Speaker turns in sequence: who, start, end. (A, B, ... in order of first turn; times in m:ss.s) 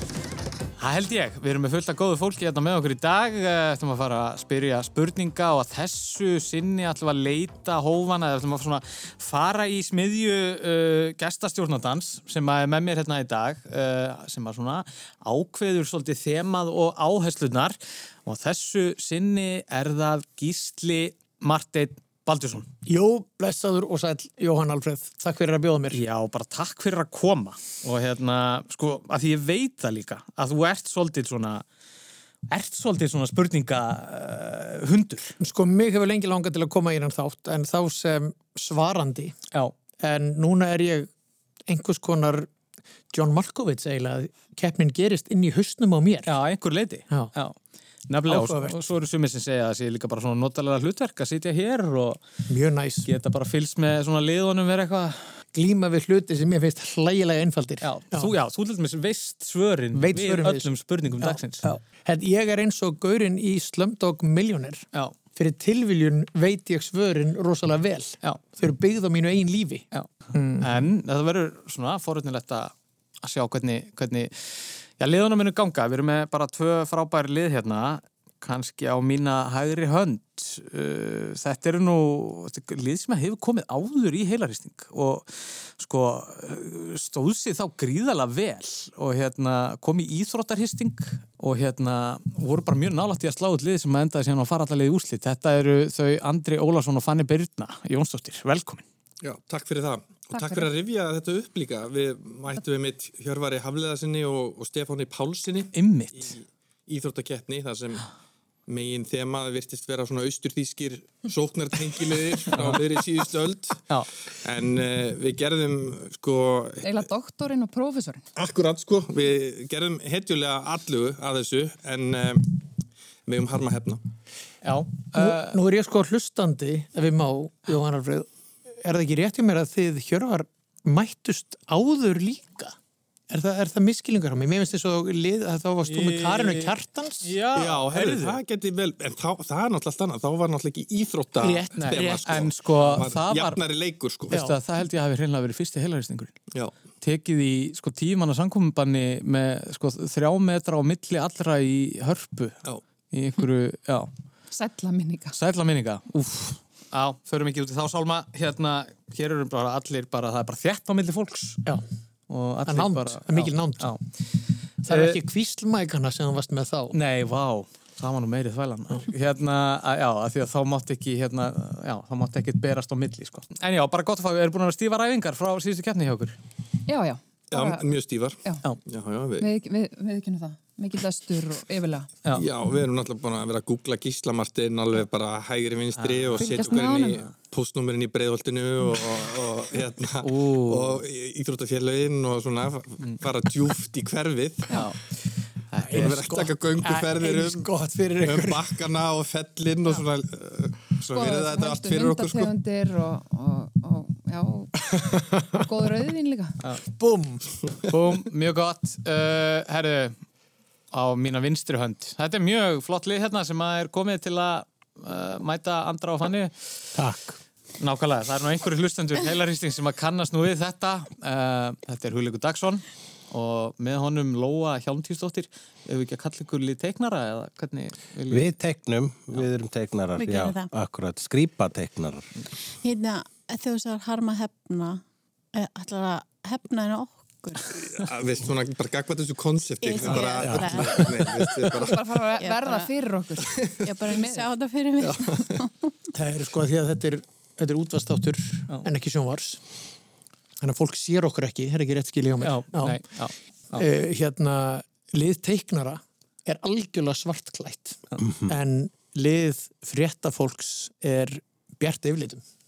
0:00.8-0:22.7 A
0:22.8-0:26.0 B
0:25.9-0:31.6 A
0:32.5-0:35.4 A
0:35.4-0:39.3 B
0:40.0-0:41.1 B
0:41.7-0:42.5 B
0:43.1-0:46.3 B
0:46.2-0:47.6 A
0:48.1-0:52.2 A
0:48.3-0:48.8 B
0:52.5-0:53.1 B
0:53.0-0:55.4 A
0:55.5-0:58.3 B
0:57.8-1:01.7 A
0:59.9-1:10.9 B
1:09.9-1:38.8 A
1:39.2-1:48.1 C
1:40.3-1:40.7 D
1:45.7-1:46.4 A
1:48.7-1:53.8 C
1:52.5-1:52.8 A
1:54.4-1:57.0 C
1:56.8-1:58.2 D
1:58.4-2:02.6 C
2:03.2-2:04.0 C
2:04.6-2:05.6 A
2:05.1-2:08.3 B
2:08.8-2:12.7 B
2:13.3-2:17.3 B
2:15.8-2:18.4 A
2:17.5-2:24.5 C
2:21.4-2:22.4 B
2:21.8-2:23.6 A
2:24.3-2:26.4 A
2:27.0-2:34.1 A
2:34.5-2:35.3 D
2:35.3-2:41.6 A
2:42.3-2:44.0 A
2:42.6-2:44.0 B
2:44.8-2:46.9 B
2:44.9-2:45.2 A
2:46.9-2:56.4 A
2:56.9-2:58.7 D
2:57.5-2:59.5 C
2:59.4-3:02.1 D
3:02.3-3:14.8 C
3:06.0-3:06.7 A
3:06.4-3:07.3 D
3:10.2-3:11.0 A
3:14.7-3:15.1 A
3:15.7-3:16.2 A
3:15.9-3:18.8 B
3:15.9-3:17.7 C
3:18.2-3:22.5 C
3:21.0-3:21.3 A
3:21.1-3:24.9 D
3:24.9-3:25.6 B
3:25.5-3:26.6 D
3:27.0-3:27.6 B
3:27.9-3:30.2 A
3:30.9-3:36.7 A
3:36.9-3:37.4 E
3:37.8-3:48.5 A
3:48.3-3:52.3 E
3:50.2-3:50.7 F
3:52.8-3:55.0 F
3:55.5-3:57.9 F
3:57.7-4:02.2 C
3:59.8-4:01.4 F
4:00.4-4:00.8 B
4:01.7-4:04.5 D
4:02.4-4:02.9 F
4:03.5-4:03.9 C
4:03.8-4:05.9 F
4:05.0-4:05.6 C
4:06.1-4:09.6 B
4:10.6-4:13.0 B
4:12.4-4:13.8 A
4:13.7-4:22.4 B
4:18.2-4:18.5 E